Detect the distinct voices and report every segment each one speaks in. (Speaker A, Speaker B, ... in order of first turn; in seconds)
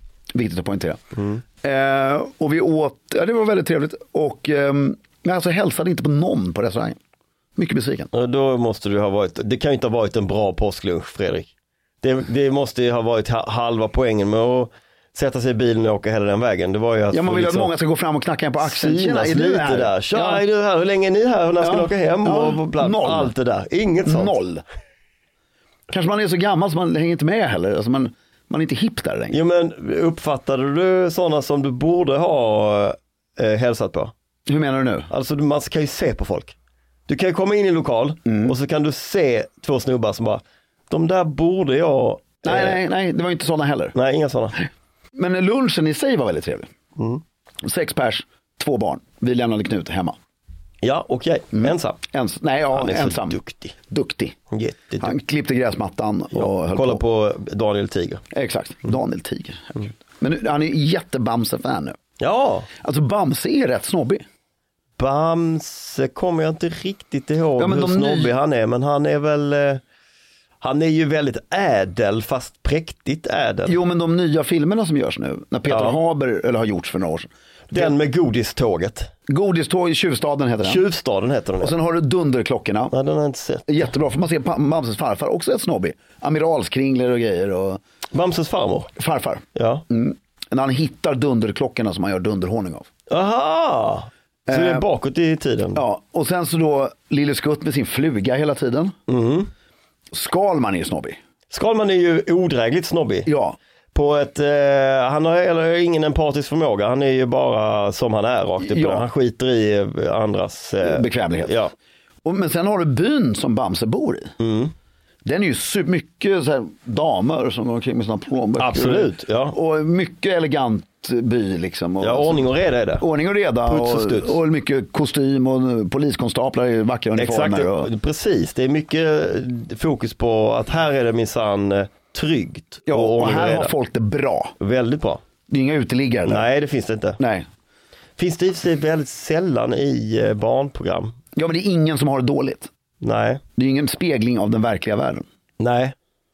Speaker A: 0.3-1.0, 1.6-7.0, 7.6-8.1, 17.1-20.4, 21.6-23.3, 24.1-24.6, 25.9-29.4, 34.5-35.1, 38.2-38.5, 42.4-44.0, 44.6-46.7, 47.6-50.2, 51.5-54.4, 55.0-57.0, 58.3-62.0, 62.8-64.2, 67.6-68.3, 73.7-77.9, 79.3-80.8, 81.6-82.9, 83.7-87.8, 89.0-92.9, 94.5-94.9, 95.8-98.9, 100.1-101.2, 103.3-103.6, 108.6-109.0, 110.8-111.6, 112.2-114.3, 115.2-127.9, 132.9-134.5, 135.5-136.5, 137.2-137.5, 141.3-142.7, 143.6-145.3
Speaker B: 1.1-1.4, 8.1-11.5, 12.0-17.7, 18.6-24.4, 29.3-34.1, 35.1-36.6, 37.1-42.8, 44.0-44.6, 47.0-47.2, 50.8-52.0, 52.7-53.7, 54.5-55.1, 56.3-58.2, 62.2-62.7, 65.0-69.8, 70.6-73.8, 75.7-76.0, 77.7-79.1, 80.6-81.8, 82.9-83.9, 88.1-88.9, 89.5-89.8, 93.1-95.8, 99.1-99.5, 101.5-103.3, 103.9-111.7, 114.4-114.7, 118.6-119.6, 122.0-123.0, 123.7-124.4, 127.2-133.7, 134.6-135.2, 136.3-137.2, 138.2-141.2, 143.0-143.4, 145.6-145.9